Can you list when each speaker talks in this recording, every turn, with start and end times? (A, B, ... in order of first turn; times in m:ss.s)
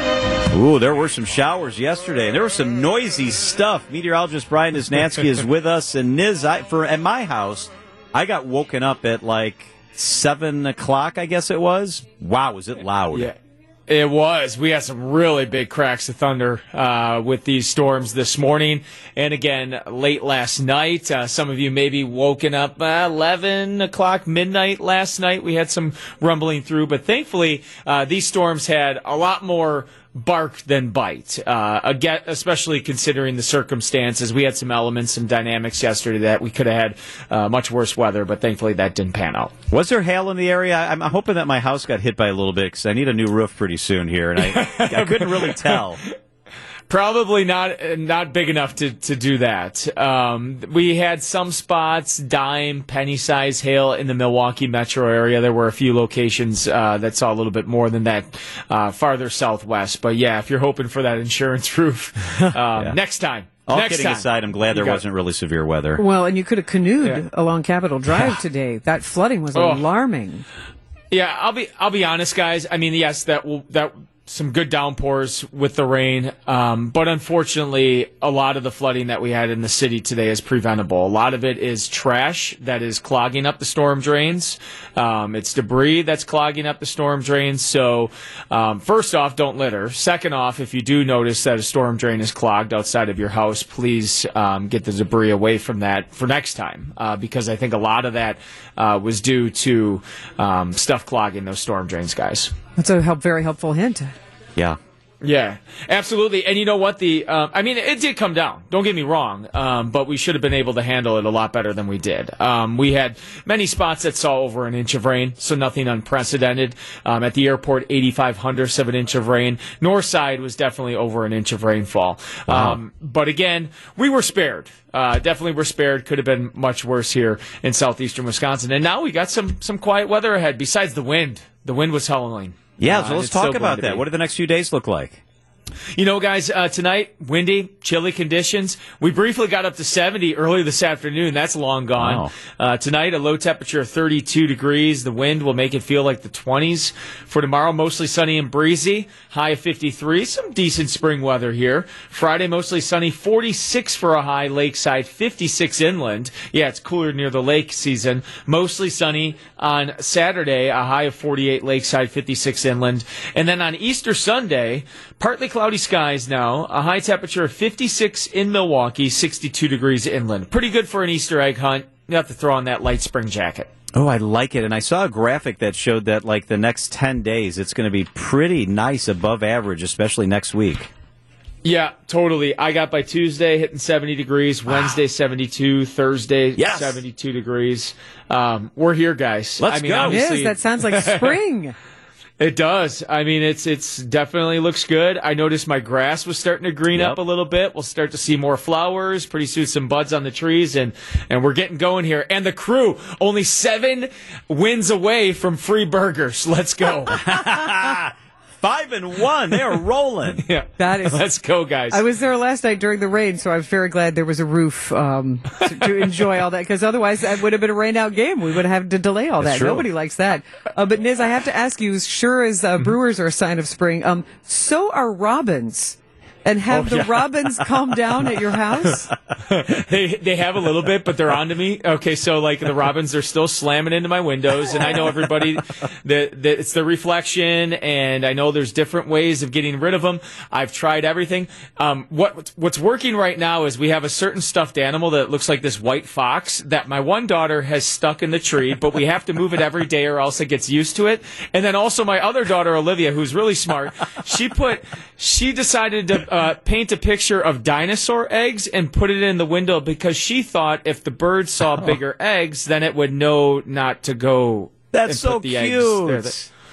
0:00.5-0:13.3 A
0:13.9-0:39.5 B
0:39.7-0:46.0 A
0:44.4-0:45.9 B
0:46.9-1:05.0 B
1:03.6-1:06.0 A
1:06.0-1:10.4 C
1:09.5-1:09.8 B
1:11.1-1:42.5 B
1:42.8-1:44.1 C
1:45.2-2:14.0 B
2:02.5-2:02.8 A
2:12.8-2:15.2 A
2:15.9-2:53.7 B
2:22.0-2:22.3 A
2:53.9-3:00.9 A
3:01.6-3:11.4 B
3:06.6-3:07.0 A
3:09.6-3:10.2 A
3:10.0-3:11.7 C
3:12.4-3:27.4 B
3:16.9-3:17.2 A
3:27.2-3:30.4 A
3:30.4-3:32.0 B
3:30.8-3:31.2 C
3:31.9-3:49.1 C
3:39.4-3:39.8 A
3:46.7-3:47.6 B
3:49.4-4:26.5 B
4:24.9-4:26.3 A